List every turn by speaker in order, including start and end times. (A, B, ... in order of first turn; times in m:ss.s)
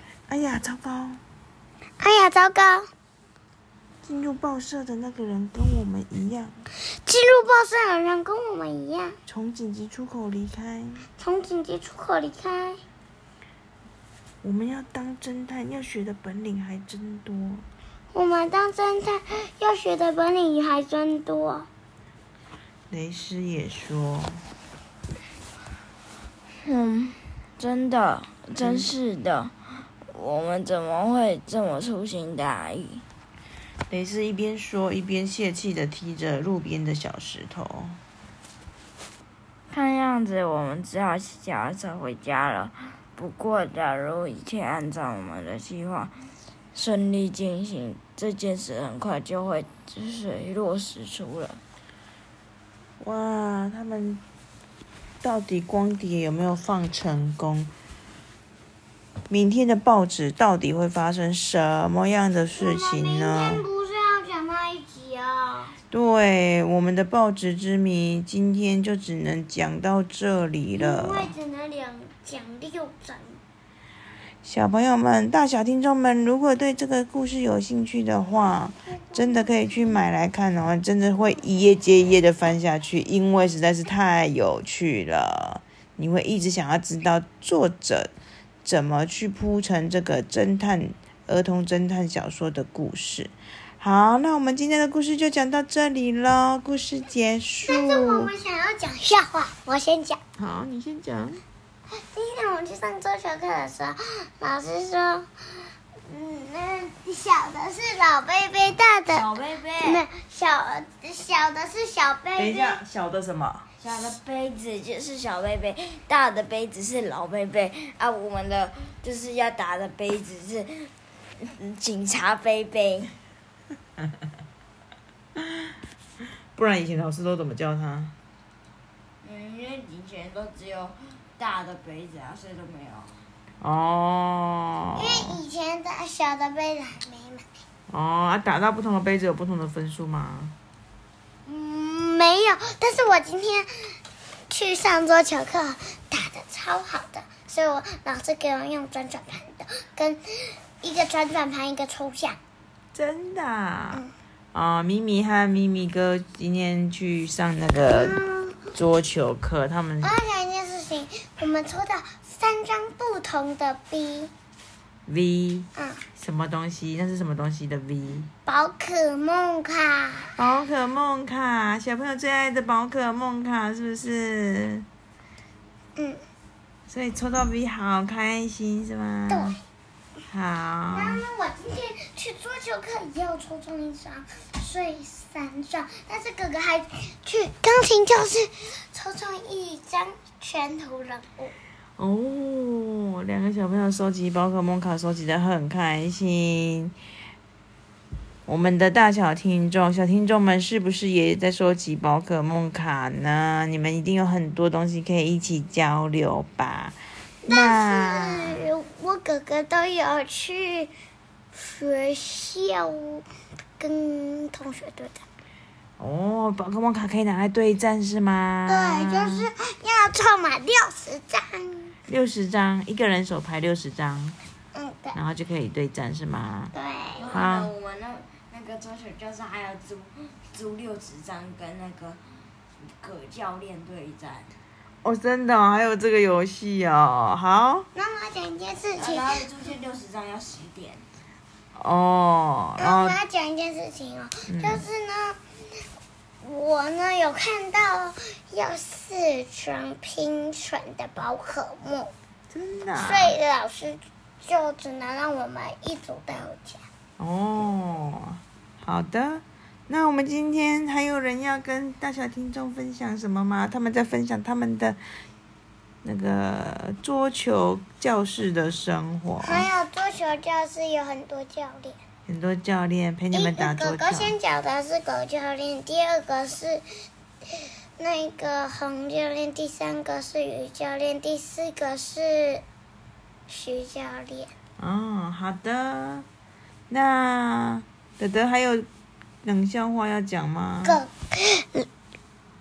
0:00.3-0:01.2 A
0:02.0-0:02.9 B
0:04.0-0:06.6 A
0:07.0-0:09.2 B
0:09.3-0:11.1 A
0:11.2-0:12.8 B
0:14.4-0:17.6 A
0:18.1-0:21.7 B
0:22.9-0:24.4 A
0:26.6-0:29.6 C
0:28.6-0:28.9 A
0:30.1-0:33.0 C
0:33.9-0:38.0 A
0:39.7-0:46.2 C
0:46.8-0:51.6 C
0:53.0-0:54.2 A
0:55.2-0:57.7 A
0:59.3-1:03.6 A
1:02.6-1:05.8 B
1:05.9-1:11.3 A
1:10.8-1:13.4 B
1:14.4-1:28.1 A
1:18.9-1:19.5 B
1:28.6-1:38.3 A
1:37.6-1:40.2 B
1:40.4-1:41.4 A
1:41.9-1:45.3 B
1:46.1-1:52.8 B
1:49.1-1:50.0 C
1:52.4-1:53.7 A
1:53.8-2:03.1 C
2:06.6-2:08.1 A
2:09.2-2:13.1 C
2:13.6-2:15.4 A
2:15.0-2:17.4 B
2:17.9-2:20.6 A
2:21.5-2:23.9 B
2:24.5-2:32.4 B
2:32.9-2:34.0 A
2:34.5-2:38.2 A
2:37.9-2:38.6 B
2:38.7-2:40.2 A
2:40.0-2:44.3 B
2:45.1-2:48.3 A
2:45.8-2:46.0 B
2:48.5-2:50.4 B
2:50.4-2:54.9 A
2:56.0-2:56.2 B
2:56.9-2:59.6 A
2:59.3-2:59.6 B
3:00.3-3:01.2 A
3:00.9-3:11.6 B
3:12.0-3:16.9 A
3:18.5-3:28.6 A
3:27.4-3:30.9 B
3:31.5-3:33.2 B
3:33.8-3:35.2 B
3:36.0-3:39.5 A
3:38.7-3:42.0 B
3:42.1-3:44.4 A
3:44.7-3:45.2 B
3:45.1-3:46.7 A
3:46.7-3:47.3 B
3:47.2-3:52.2 C
3:47.3-3:47.7 A
3:52.8-3:54.5 C
3:55.0-3:57.9 A
3:58.0-3:59.4 B
3:59.0-4:01.0 C
4:01.8-4:03.2 A
4:02.8-4:05.4 B
4:04.5-4:04.8 A
4:06.4-4:12.1 B
4:12.5-4:13.4 A
4:13.0-4:16.8 B
4:17.2-4:25.0 A
4:26.0-4:29.7 A
4:29.4-4:32.0 B
4:32.3-4:34.4 A
4:33.3-4:36.8 B
4:38.0-4:42.6 B
4:43.5-4:44.5 B
4:44.8-4:46.3 A
4:46.9-4:48.9 A
4:49.4-4:51.0 A
4:50.8-4:51.9 B